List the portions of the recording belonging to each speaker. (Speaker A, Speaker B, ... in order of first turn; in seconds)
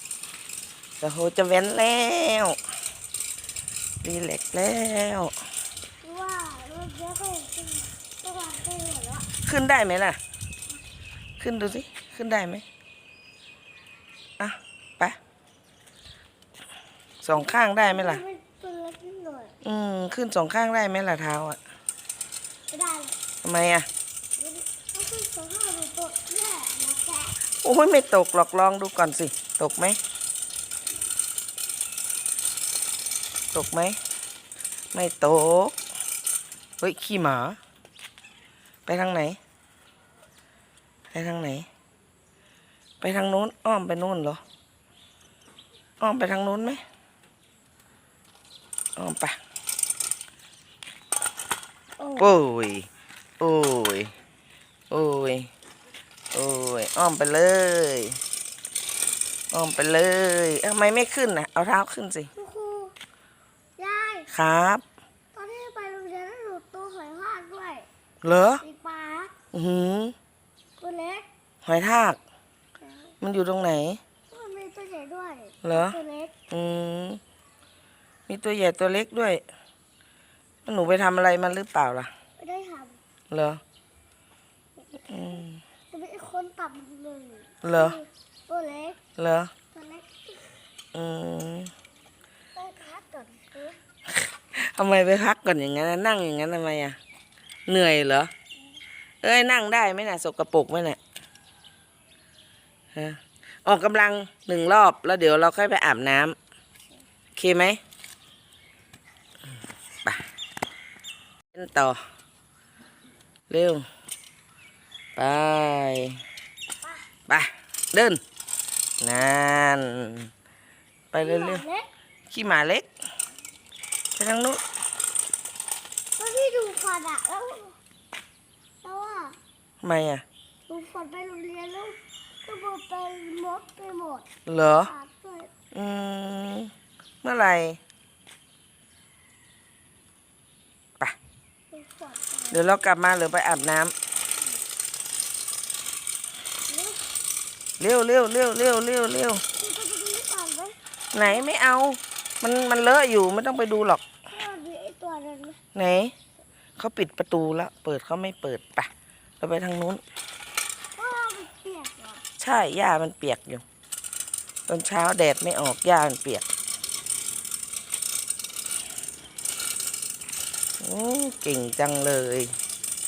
Speaker A: 1.0-2.6, 4.0-5.3, 9.4-10.2, 11.4-12.7, 14.4-15.2, 17.2-18.2, 19.6-21.6, 23.4-23.9, 27.6-30.0, 33.5-34.0, 34.9-35.8, 36.8-37.6, 38.9-39.4, 41.1-41.7, 43.0-44.4, 46.0-46.8, 49.0-49.4, 52.2-52.9, 53.4-54.1, 54.9-55.5, 56.3-58.2, 59.5-62.3, 64.3-64.8, 68.2-68.6, 69.5-70.2, 71.6-72.2, 73.2-74.0, 75.6-76.0, 76.5-77.2, 78.3-79.4, 80.7-82.1, 83.3-83.6, 85.1-85.6, 87.6-88.0, 89.2-89.5, 90.9-91.7, 94.2-97.0, 97.7-98.3, 99.2-101.0, 103.0-106.4, 107.4-107.8, 111.5-112.0, 113.5-113.8, 115.2-116.2, 117.3-118.2, 119.0-120.3, 121.1-121.7, 122.3-122.9, 124.2-124.6, 129.8-130.2, 134.5-134.9, 135.7-136.7, 137.2-137.8, 142.5-143.9, 147.8-149.4, 151.1-154.0, 155.8-156.1, 156.8-160.0, 162.4-163.6, 164.7-166.5, 170.8-172.5
Speaker B: 6.0-9.3, 17.4-19.6, 22.7-23.2, 24.4-27.4, 52.0-52.4, 62.4-63.0, 63.8-64.3, 65.3-67.9, 68.6-69.3, 70.8-71.3, 74.3-76.3, 82.4-83.0, 85.9-89.0, 89.7-90.6, 92.6-93.8, 121.2-121.9, 126.2-127.8, 128.8-129.4, 130.7-134.3, 134.9-135.5, 141.7-142.6, 146.7-147.0, 149.6-151.4, 154.3-155.6, 161.0-162.2